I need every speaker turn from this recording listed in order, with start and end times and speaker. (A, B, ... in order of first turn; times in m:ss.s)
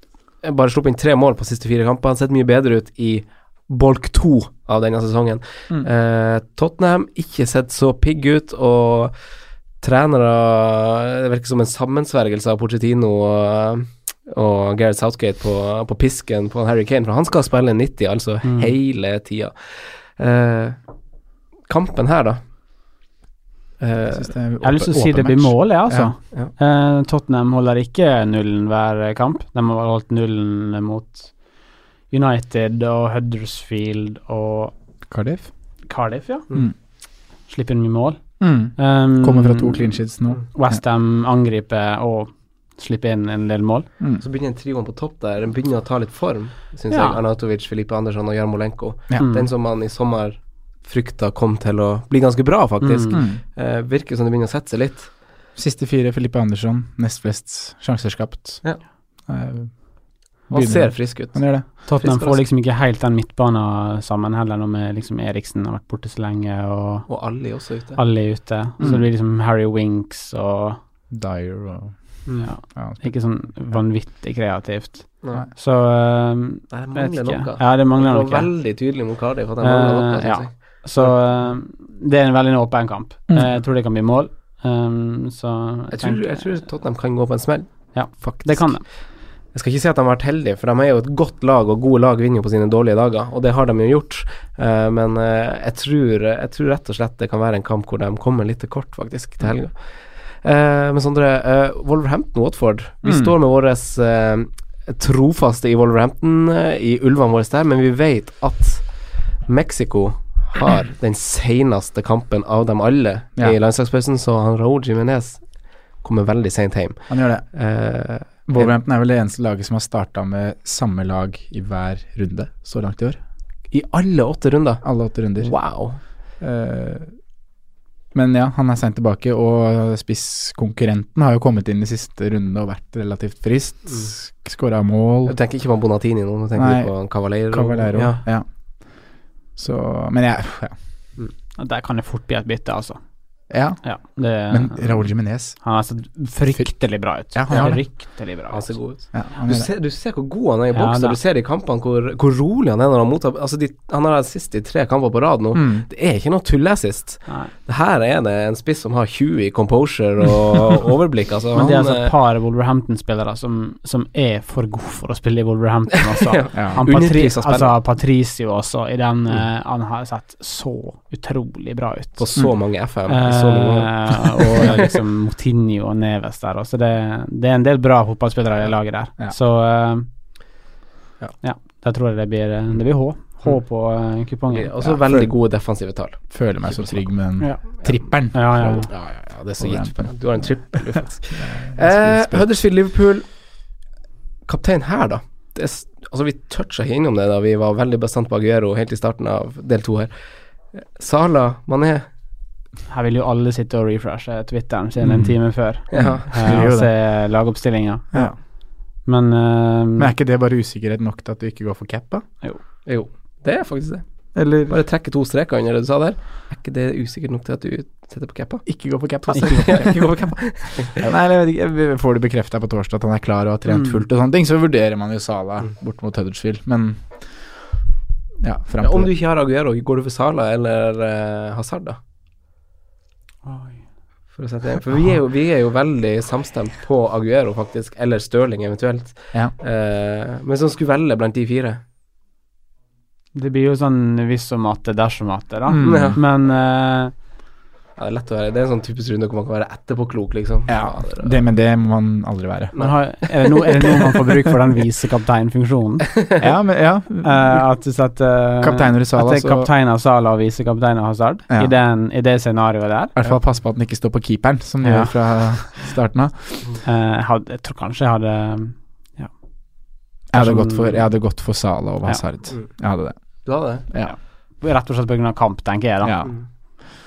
0:00.4-0:09.1 A
0:09.8-0:19.5 A
0:18.4-0:18.7 B
0:20.2-0:20.8 A
0:21.7-0:22.4 A
0:23.8-0:24.3 A
0:24.1-0:26.1 C
0:24.6-0:31.3 B
0:32.1-0:34.8 B
0:35.1-0:35.5 C
0:35.9-0:36.5 B
0:37.5-0:38.2 B
0:38.4-0:40.8 C
0:38.8-0:40.0 B
0:40.5-0:43.9 B
0:44.2-0:55.1 A
0:46.9-0:47.2 B
0:49.2-0:49.5 B
0:52.8-0:53.2 B
0:53.1-0:53.4 C
0:55.6-0:58.6 C
0:59.3-0:59.7 C
1:00.5-1:01.7 C
1:00.5-1:02.5 A
1:01.9-1:07.1 B
1:07.1-1:08.0 A
1:07.9-1:10.8 B
1:11.1-1:13.1 C
1:12.3-1:12.5 A
1:12.4-1:18.5 B
1:16.7-1:21.2 A
1:19.6-1:26.6 B
1:25.9-1:28.8 A
1:27.9-1:28.8 B
1:29.6-1:39.9 A
1:40.4-1:48.9 A
1:49.5-1:55.4 A
1:56.0-1:58.7 A
1:57.1-1:57.5 C
1:58.5-2:03.2 C
2:03.7-2:06.0 A
2:04.8-2:05.6 C
2:06.4-2:07.1 C
2:08.1-2:15.4 C
2:15.3-2:18.2 A
2:16.6-2:18.4 C
2:19.6-2:20.7 C
2:21.6-2:23.0 B
2:23.5-2:23.8 C
2:23.8-2:28.8 B
2:24.5-2:25.6 C
2:27.2-2:27.8 C
2:27.5-2:27.8 A
2:28.5-2:42.1 A
2:29.1-2:29.7 C
2:30.7-2:31.2 B
2:35.5-2:35.9 C
2:37.3-2:37.5 B
2:41.6-2:52.4 B
2:46.1-2:47.8 A
2:46.6-2:46.8 C
2:52.2-2:55.0 A
2:53.1-3:00.1 B
3:01.4-3:04.7 B
3:04.5-3:07.0 A
3:04.8-3:05.4 C
3:06.3-3:09.0 C
3:07.4-3:08.9 B
3:08.9-3:13.3 A
3:09.6-3:12.5 C
3:14.5-3:20.1 A
3:20.7-3:22.0 A
3:22.9-3:28.3 B
3:25.0-3:26.9 C
3:25.9-3:26.5 A
3:29.0-3:30.1 B
3:30.0-3:32.2 C
3:32.9-3:38.7 A
3:34.4-3:34.8 C
3:38.7-3:47.1 C
3:39.3-3:41.1 A
3:43.7-3:44.0 B
3:48.4-3:49.1 C
3:48.8-3:52.0 A
3:53.4-3:53.8 B
3:54.4-4:01.8 A
4:03.3-4:07.1 B
4:05.7-4:06.2 C
4:05.8-4:06.2 A
4:08.0-4:11.4 A
4:10.7-4:12.8 C
4:12.8-4:16.1 B
4:16.4-4:17.7 C
4:17.2-4:23.2 B
4:18.6-4:19.7 C
4:23.2-4:26.7 C
4:24.8-4:25.7 B
4:26.8-4:29.3 B
4:30.3-4:33.2 C
4:30.3-4:31.1 B
4:33.4-4:33.9 A
4:33.9-4:34.2 C
4:34.0-4:36.2 B
4:36.0-4:36.3 C